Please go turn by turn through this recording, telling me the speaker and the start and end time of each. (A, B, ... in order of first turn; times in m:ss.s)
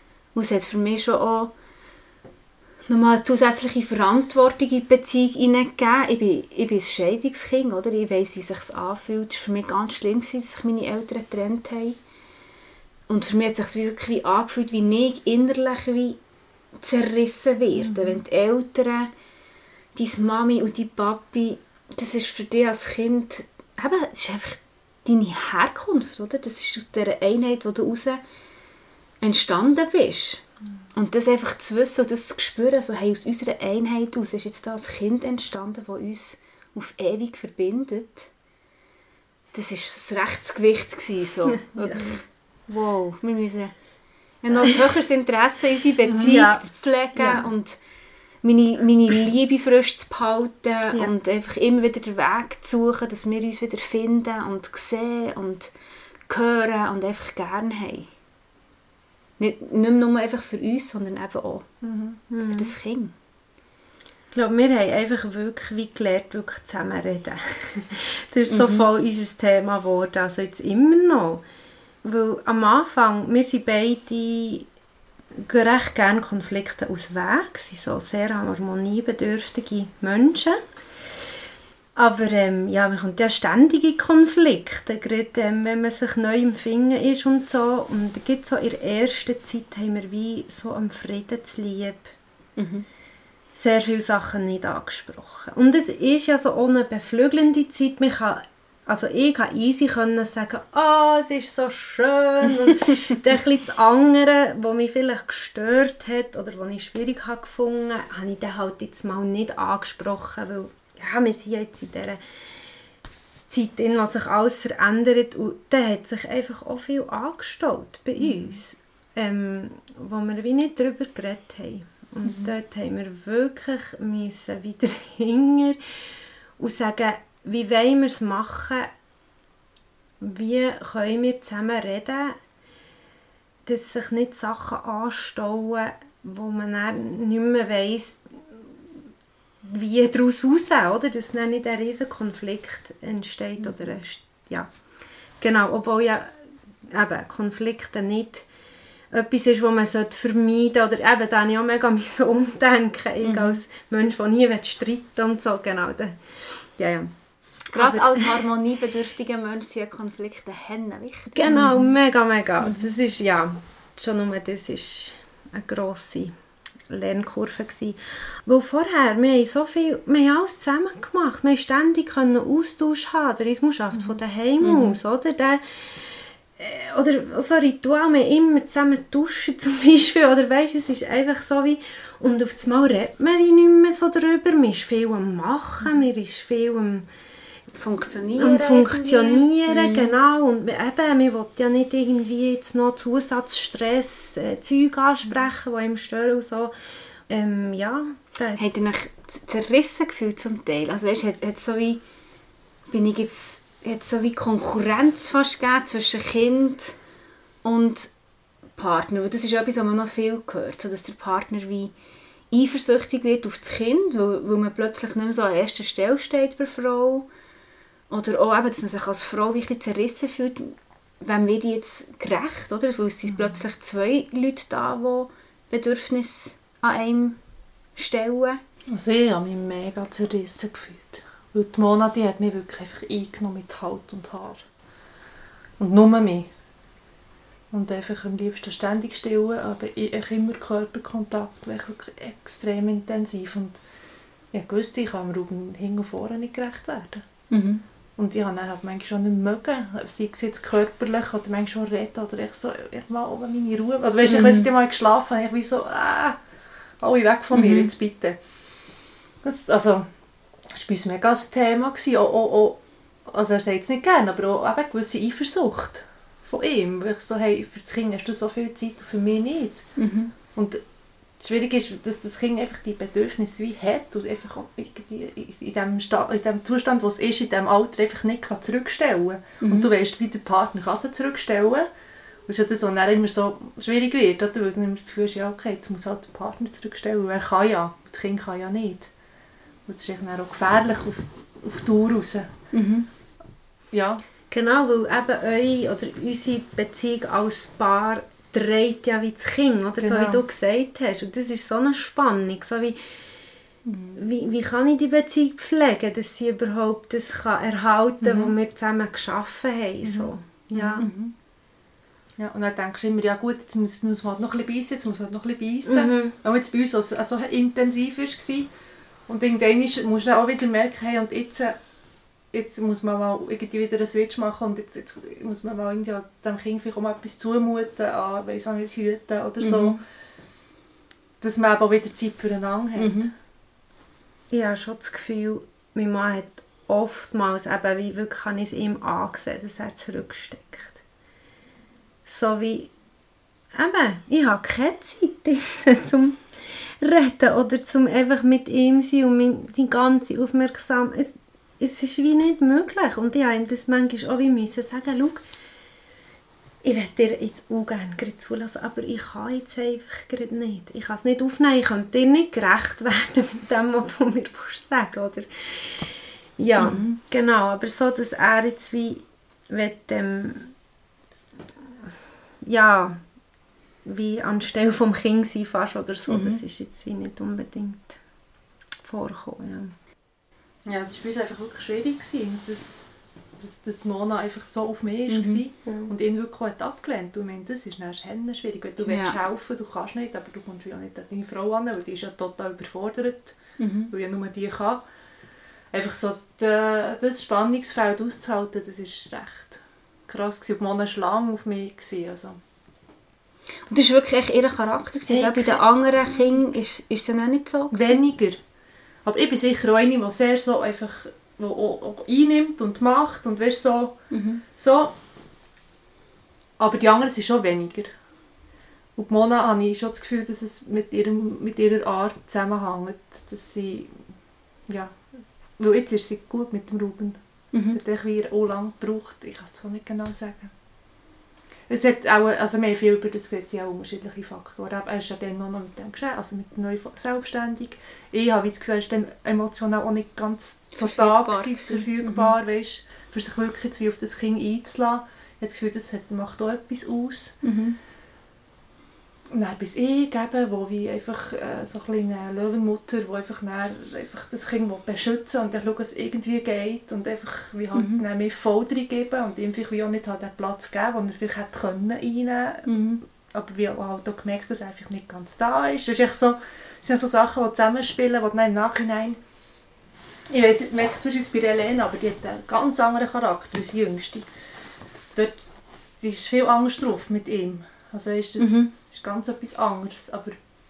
0:00.4-0:01.5 A
0:02.9-0:12.0 A
0:13.1-0:16.2 A
0:16.8-0:19.1 A
0:17.8-0:18.2 B
0:20.0-0:28.2 A
0:29.2-0:30.4 A
0:30.9-0:38.3 A
0:39.5-0:43.7 A
0:41.6-0:42.2 C
0:44.4-0:47.8 A
0:46.1-0:46.4 B
0:46.2-0:47.4 C
0:48.4-0:55.7 A
0:56.3-0:58.1 A
0:59.4-1:01.7 A
1:01.8-1:02.2 B
1:02.3-1:02.7 C
1:02.5-1:03.1 A
1:04.3-1:11.4 C
1:08.5-1:08.9 A
1:12.0-1:14.7 C
1:15.4-1:20.6 C
1:22.0-1:32.1 C
1:32.6-1:32.8 A
1:33.6-1:52.2 C
1:53.5-2:05.8 C
1:58.2-1:58.5 A
2:02.2-2:02.5 A
2:06.6-2:08.9 C
2:10.2-2:12.4 C
2:13.7-2:19.0 C
2:19.6-2:24.7 C
2:25.4-2:28.5 C
2:29.1-2:37.1 C
2:33.2-2:33.6 A
2:37.7-2:41.6 A
2:37.7-2:38.4 C
2:41.3-2:46.3 C
2:41.5-2:41.8 B
2:42.6-2:42.9 A
2:46.9-3:07.1 C
2:54.6-2:55.0 A
3:07.7-3:10.1 A
3:08.3-3:16.7 C
3:17.3-3:18.6 C
3:18.6-3:22.0 A
3:22.9-3:27.0 A
3:27.6-3:28.1 A
3:28.8-3:31.9 A
3:32.5-3:37.3 A
3:38.1-3:47.4 A
3:48.0-3:48.6 A
3:48.9-3:54.6 B
3:55.8-3:56.5 B
3:57.7-4:03.8 B
4:04.5-4:07.2 B
4:07.5-4:07.8 A
4:08.2-4:16.4 B
4:14.2-4:14.7 A
4:17.0-4:18.4 B
4:17.5-4:17.9 A
4:19.4-4:20.1 B
4:20.7-4:29.9 B
4:30.0-4:30.3 A
4:30.5-4:30.8 B
4:31.4-4:41.9 B
4:39.6-4:39.9 A
4:42.5-4:49.1 B
4:49.9-4:52.5 B
4:52.7-4:53.1 A
4:53.9-4:54.2 B
4:54.5-5:03.0 C
5:00.0-5:00.4 B
5:03.9-5:04.2 A
5:04.2-5:11.1 C
5:08.2-5:08.5 B
5:10.0-5:10.3 B
5:11.0-5:11.3 A
5:12.4-5:18.7 B
5:15.9-5:16.3 C
5:19.3-5:21.8 B
5:22.5-5:30.0 B
5:29.6-5:30.0 A
5:31.4-5:33.3 B
5:33.0-5:33.3 A
5:34.5-5:41.0 C
5:42.3-5:42.9 C
5:43.7-5:55.4 C
5:56.8-6:10.7 C
6:06.8-6:07.2 A
6:12.6-6:13.2 C
6:14.0-6:18.2 C
6:16.3-6:16.6 A
6:19.0-6:20.0 C
6:20.9-6:22.9 B
6:23.6-6:35.0 B
6:25.3-6:25.6 A
6:25.9-6:26.1 C
6:29.0-6:29.4 A
6:33.8-6:34.1 A
6:35.9-6:42.6 B
6:43.9-6:48.2 A
6:45.3-6:45.8 C
6:47.9-6:48.6 B
6:49.2-6:55.2 B
6:54.3-6:54.6 A
6:56.8-6:58.1 B
6:59.2-7:04.2 B
7:04.9-7:05.2 B
7:05.8-7:10.7 B
7:07.7-7:08.0 A
7:11.9-7:27.6 B
7:21.0-7:22.5 A
7:27.6-7:28.0 A
7:29.5-7:49.4 B
7:38.0-7:38.2 A
7:42.9-7:43.2 A
7:50.5-7:54.5 B
7:55.4-7:55.7 B
7:56.2-8:00.6 B
7:58.6-7:58.9 A